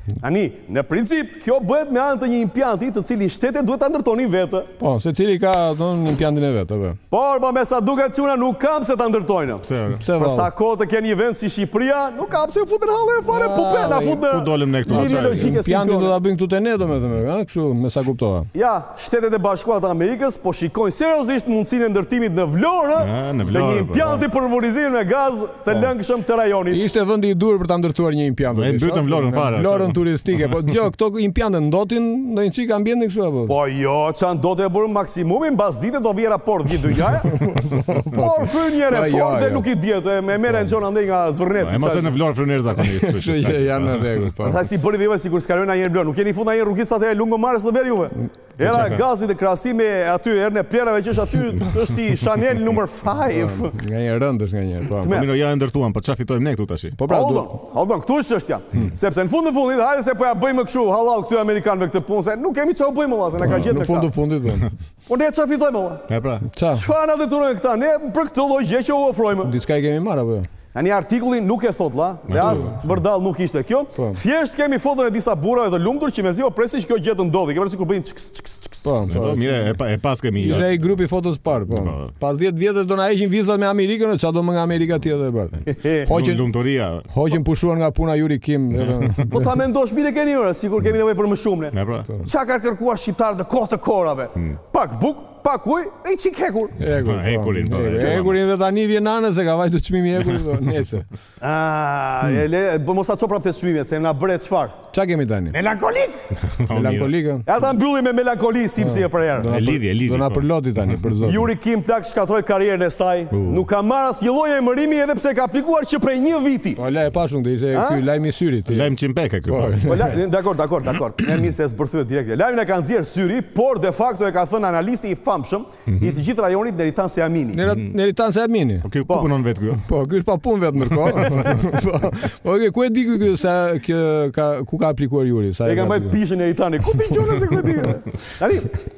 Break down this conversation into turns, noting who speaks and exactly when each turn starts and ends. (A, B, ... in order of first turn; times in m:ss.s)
0:00.2-0:04.7 A
0:04.8-0:07.0 B
0:07.1-0:16.2 A
0:09.6-0:10.1 C
0:10.0-0:10.5 B
0:13.3-0:14.2 B
0:14.3-0:15.6 C
0:14.9-0:18.5 B
0:18.5-0:26.8 A
0:23.0-0:24.2 C
0:26.7-0:33.6 B
0:28.5-0:30.0 C
0:33.5-0:37.4 A
0:37.3-0:39.7 B
0:38.1-0:42.2 A
0:41.6-0:44.3 C
0:42.8-0:44.6 B
0:44.4-0:53.7 A
0:48.2-0:48.9 B
0:48.6-0:49.0 C
0:53.3-0:55.2 B
0:55.0-0:55.3 A
0:55.1-0:57.0 C
0:57.0-0:57.5 B
0:57.0-1:04.1 A
1:03.4-1:04.7 B
1:03.5-1:03.8 C
1:05.1-1:06.1 A
1:06.1-1:06.5 C
1:06.5-1:06.8 B
1:06.7-1:09.5 A
1:09.4-1:10.5 B
1:10.7-1:19.3 A
1:12.3-1:13.0 C
1:12.4-1:12.7 B
1:14.0-1:14.2 B
1:18.8-1:19.6 B
1:19.1-1:21.0 C
1:20.4-1:26.4 B
1:21.7-1:22.1 C
1:25.7-1:26.1 A
1:26.1-1:27.0 C
1:27.1-1:29.4 B
1:28.8-1:29.2 C
1:29.3-1:36.8 A
1:31.7-1:32.1 C
1:36.8-1:41.1 B
1:37.0-1:38.4 C
1:41.4-1:44.8 A
1:44.9-1:45.6 B
1:45.5-1:46.2 A
1:46.4-1:47.2 C
1:46.7-1:47.4 B
1:47.5-1:49.6 A
1:48.8-1:51.5 B
1:49.5-1:50.5 C
1:51.2-1:56.8 A
1:53.3-1:53.7 C
1:56.8-1:58.9 B
1:57.7-1:58.0 A
1:58.7-1:59.9 C
1:59.5-2:00.2 B
1:59.9-2:07.6 A
2:05.9-2:06.2 C
2:07.5-2:08.9 B
2:08.8-2:09.8 C
2:09.9-2:16.2 B
2:11.2-2:11.6 C
2:15.6-2:18.7 A